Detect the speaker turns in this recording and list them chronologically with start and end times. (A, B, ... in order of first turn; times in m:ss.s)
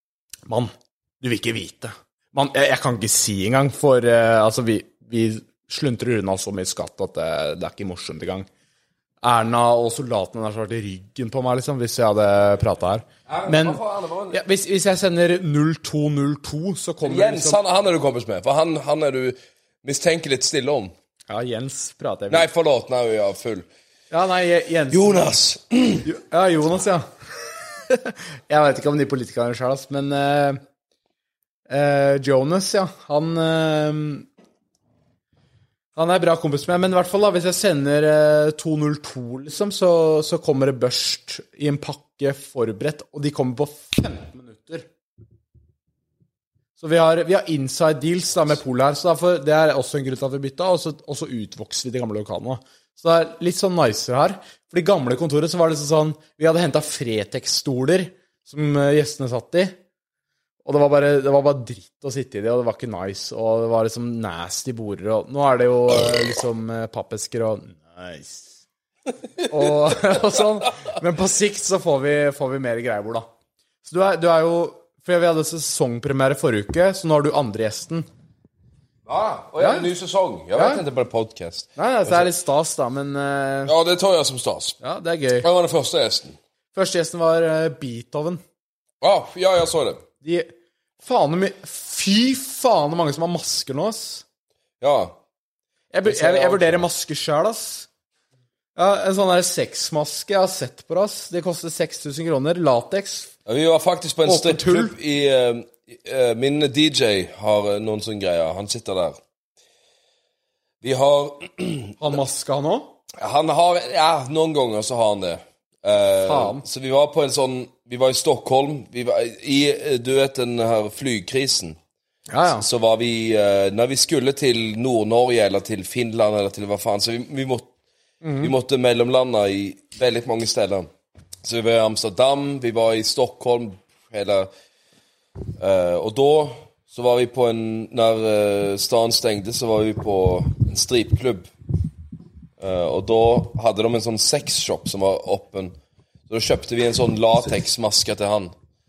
0:00.5-0:08.5 A
0:09.2-0:13.8 A
0:13.3-0:14.4 B
0:14.3-0:17.6 A
0:17.0-0:20.9 B
0:21.3-0:22.5 A
0:22.3-0:23.7 B
0:24.1-0:25.3 A
0:24.9-0:26.0 B
0:26.0-0:27.1 A
0:27.9-0:30.6 A
0:31.7-0:34.3 A
0:36.0-0:44.9 A
0:46.8-0:59.8 A
1:00.6-1:08.6 A
1:09.5-1:13.3 A
1:13.8-1:18.1 A
1:19.1-1:22.3 B
1:19.6-1:19.9 A
1:20.6-1:20.8 A
1:21.8-1:23.7 A
1:23.7-1:24.8 B
1:24.8-1:25.5 A
1:25.4-1:26.4 B
1:26.7-1:28.4 A
1:29.0-1:30.0 B
1:30.2-1:34.2 A
1:34.8-1:35.2 B
1:35.9-1:37.9 A
1:36.0-1:36.9 B
1:38.8-1:43.3 A
1:43.5-1:49.2 B
1:44.2-1:45.0 A
1:50.8-1:52.2 B
1:52.0-1:53.0 A
1:53.2-2:01.8 B
1:56.2-1:56.6 A
2:02.3-2:02.7 A
2:02.5-2:07.7 B
2:08.2-2:08.5 A
2:08.4-2:10.9 B
2:11.4-2:14.5 B
2:15.6-2:21.5 B
2:22.6-2:25.8 B
2:26.3-2:28.5 B